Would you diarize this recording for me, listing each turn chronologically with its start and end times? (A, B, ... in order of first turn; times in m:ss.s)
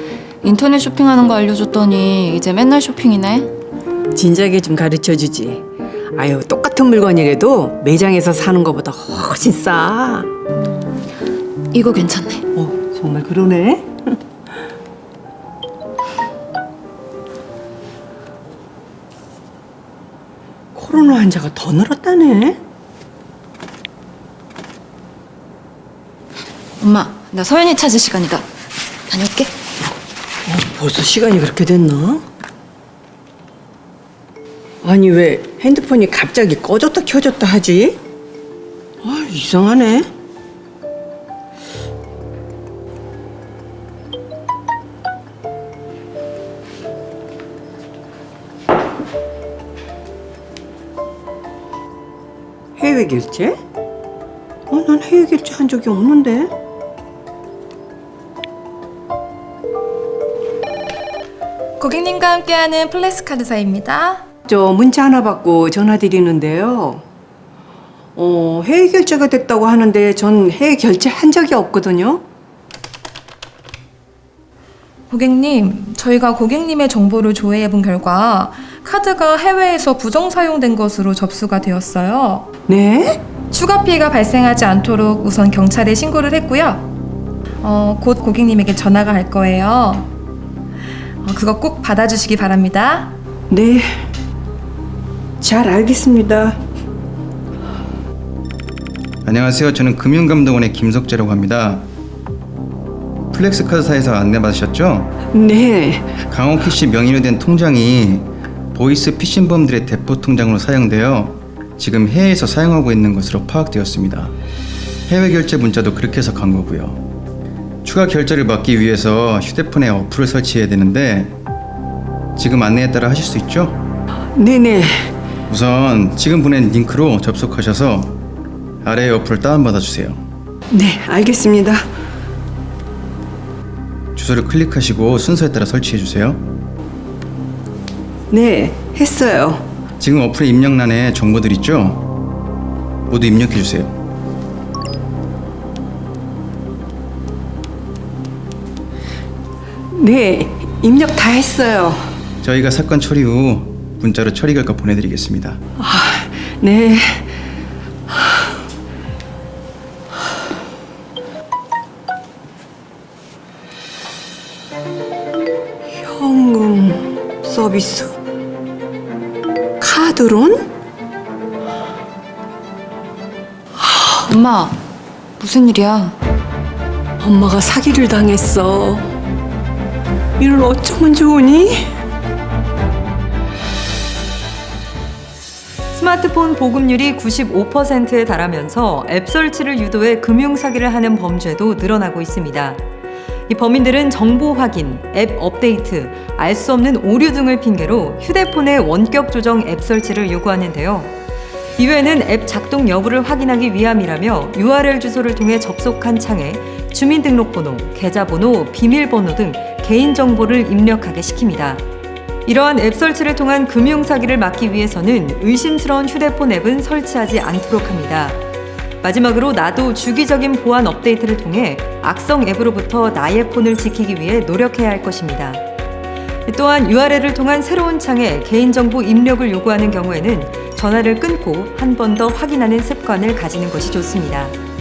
0:00.4-0:03.5 A
0:04.2-0:10.3 B
0:11.7-0:12.5 A
0:12.5-0:14.2 B
0:20.8-0:22.6 B
0:26.8-0:28.4 A
0:29.1-0:29.5 A
0:30.5-0:32.2 B
0:34.8-0:38.0 B
0:39.0-0:40.1 B
0:52.8-0:53.6 B
0:54.7-0:56.5 B
1:01.8-1:04.2 C
1:04.5-1:07.0 B
1:08.2-1:12.2 B
1:15.1-1:22.5 C
1:22.7-1:23.2 B
1:23.5-1:26.9 C
1:27.6-1:30.1 C
1:31.2-1:33.1 C
1:33.5-1:33.9 B
1:35.4-1:36.6 B
1:39.2-1:41.9 D
1:43.3-1:45.2 D
1:45.3-1:46.2 B
1:46.3-1:54.3 D
1:55.1-1:57.0 D
1:57.8-2:01.4 D
2:02.4-2:03.8 D
2:04.4-2:05.1 B
2:05.5-2:08.2 D
2:08.8-2:10.2 D
2:10.7-2:11.8 B
2:14.2-2:16.4 D
2:18.3-2:19.6 B
2:20.0-2:22.1 D
2:23.1-2:23.9 D
2:29.9-2:32.0 B
2:32.4-2:35.6 D
2:35.8-2:37.3 B
2:46.0-2:48.2 B
2:49.8-2:50.7 B
2:54.1-2:54.8 A
2:55.4-2:56.2 A
2:57.2-2:59.1 B
3:00.4-3:01.9 B
3:06.0-3:12.8 E
3:13.5-3:21.2 E
3:21.8-3:31.8 E
3:32.5-3:38.4 E
3:39.0-3:45.6 E
3:46.5-3:54.6 E